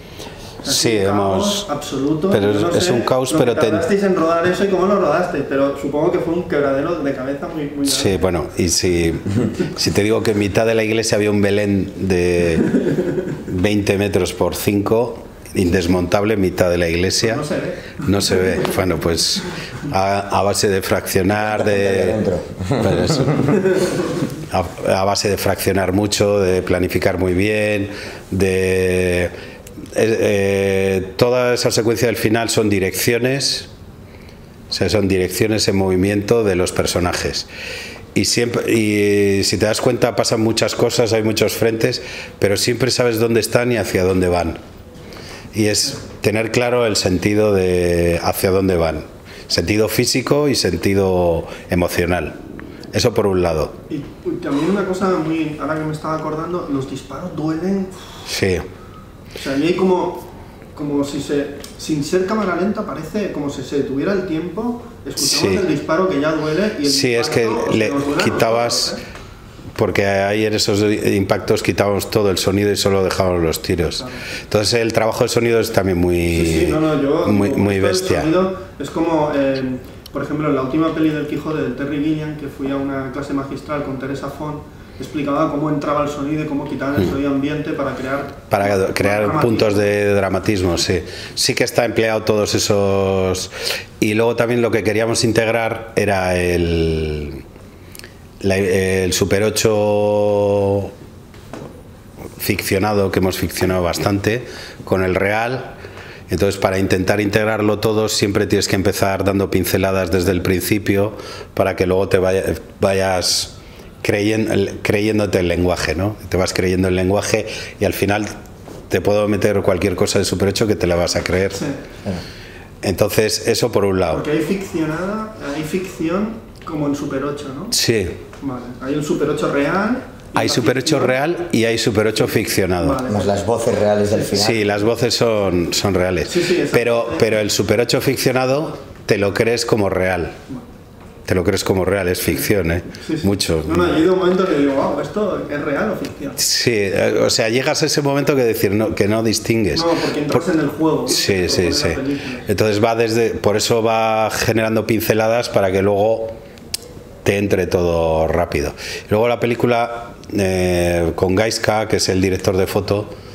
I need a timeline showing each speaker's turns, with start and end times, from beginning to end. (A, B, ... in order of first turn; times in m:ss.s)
0:00.6-0:08.2 A
0:00.6-0:01.7 B
0:02.3-0:03.9 B
0:07.8-0:17.4 B
0:17.2-0:18.6 A
0:18.0-0:22.2 B
0:21.4-0:23.6 C
0:22.8-0:23.5 B
0:24.5-0:29.3 B
0:29.9-0:33.7 B
0:34.7-0:37.5 B
0:38.1-0:44.6 B
0:45.5-0:52.4 B
0:52.9-0:53.8 B
0:53.9-0:58.2 A
0:58.3-0:58.6 B
0:59.4-1:09.0 A
1:05.2-1:05.6 B
1:06.8-1:08.9 B
1:09.8-1:18.3 B
1:14.0-1:14.2 A
1:16.3-1:29.9 A
1:28.5-1:37.4 B
1:38.4-1:40.9 B
1:42.4-1:45.8 B
1:46.3-1:58.4 B
1:58.9-2:01.6 B
2:02.8-2:04.2 B
2:04.1-2:07.7 A
2:07.7-2:08.2 B
2:08.4-2:11.2 A
2:10.3-2:13.0 B
2:12.8-2:13.3 A
2:13.1-2:14.7 C
2:14.3-2:20.4 B
2:16.2-2:17.3 A
2:21.3-2:23.9 B
2:23.0-2:26.4 A
2:26.4-2:30.4 B
2:29.7-2:32.5 A
2:31.1-2:36.4 B
2:37.2-2:43.1 B